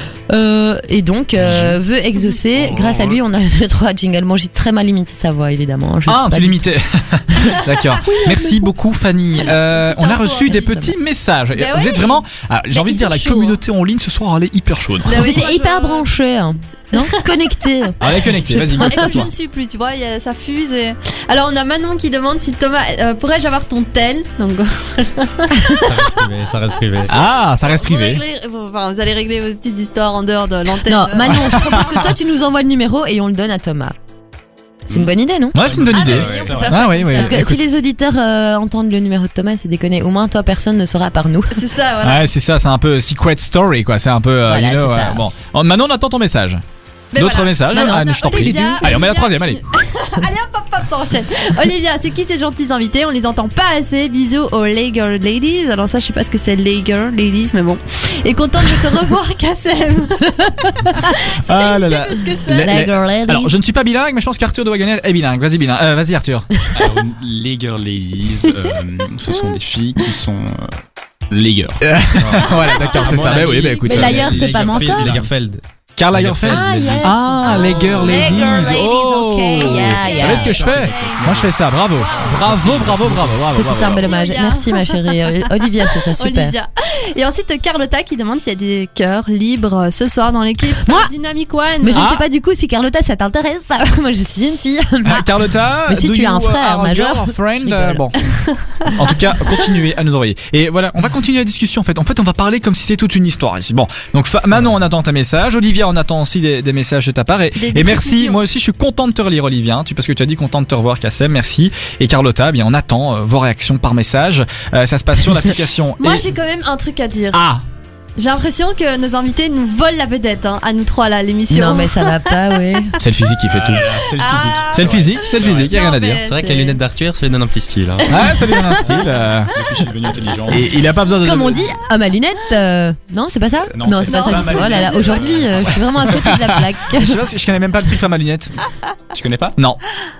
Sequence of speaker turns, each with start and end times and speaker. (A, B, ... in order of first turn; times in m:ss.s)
0:00.3-0:06.7 A
0:01.4-0:01.7 B
0:02.7-0:03.0 C
0:06.1-0:15.2 B
0:07.3-0:08.7 A
0:09.4-0:10.9 D
0:10.5-0:10.9 A
0:11.5-0:13.6 D
0:15.0-0:16.1 D
0:15.1-0:19.3 A
0:17.0-0:17.2 D
0:18.0-0:19.3 B
0:18.8-0:26.2 D
0:25.8-0:27.1 E
0:27.1-0:32.1 D
0:27.1-0:28.2 B
0:30.8-0:34.0 A
0:31.3-0:32.0 B
0:34.9-0:35.6 A
0:35.5-0:37.6 B
0:35.6-0:36.9 C
0:35.9-0:37.5 D
0:36.1-0:36.7 E
0:37.1-0:41.6 A
0:41.5-0:42.3 D
0:42.0-0:46.6 B
0:44.4-0:45.3 A
0:47.1-1:02.8 D
0:47.2-0:49.6 B
0:47.7-0:48.9 A
1:01.4-1:06.5 B
1:02.5-1:03.5 A
1:06.7-1:10.8 C
1:11.3-1:11.8 C
1:11.8-1:14.3 B
1:12.2-1:15.6 E
1:12.5-1:13.1 D
1:13.0-1:15.3 C
1:13.8-1:15.2 A
1:16.0-1:24.1 B
1:16.1-1:18.5 E
1:16.2-1:16.4 C
1:16.5-1:18.1 A
1:17.0-1:21.2 D
1:19.5-1:20.8 A
1:20.0-1:21.5 E
1:22.0-1:22.4 D
1:22.4-1:23.2 C
1:22.5-1:23.3 E
1:23.4-1:26.5 A
1:23.8-1:32.1 D
1:30.8-1:31.1 A
1:31.8-1:35.3 A
1:31.9-1:32.2 B
1:35.0-1:38.2 B
1:35.9-1:38.1 A
1:38.9-1:56.3 B
1:47.6-1:48.4 D
1:56.0-1:57.4 D
1:57.3-1:57.6 B
1:58.2-2:02.9 D
2:01.5-2:02.9 A
2:03.0-2:03.9 B
2:03.5-2:05.8 C
2:04.1-2:06.8 D
2:04.7-2:06.2 B
2:06.2-2:08.2 E
2:08.1-2:09.5 B
2:08.2-2:09.0 D
2:08.8-2:10.9 C
2:10.5-2:11.7 B
2:11.2-2:17.2 A
2:13.7-2:16.3 C
2:14.0-2:15.3 D
2:16.1-2:18.5 B
2:19.1-2:19.6 C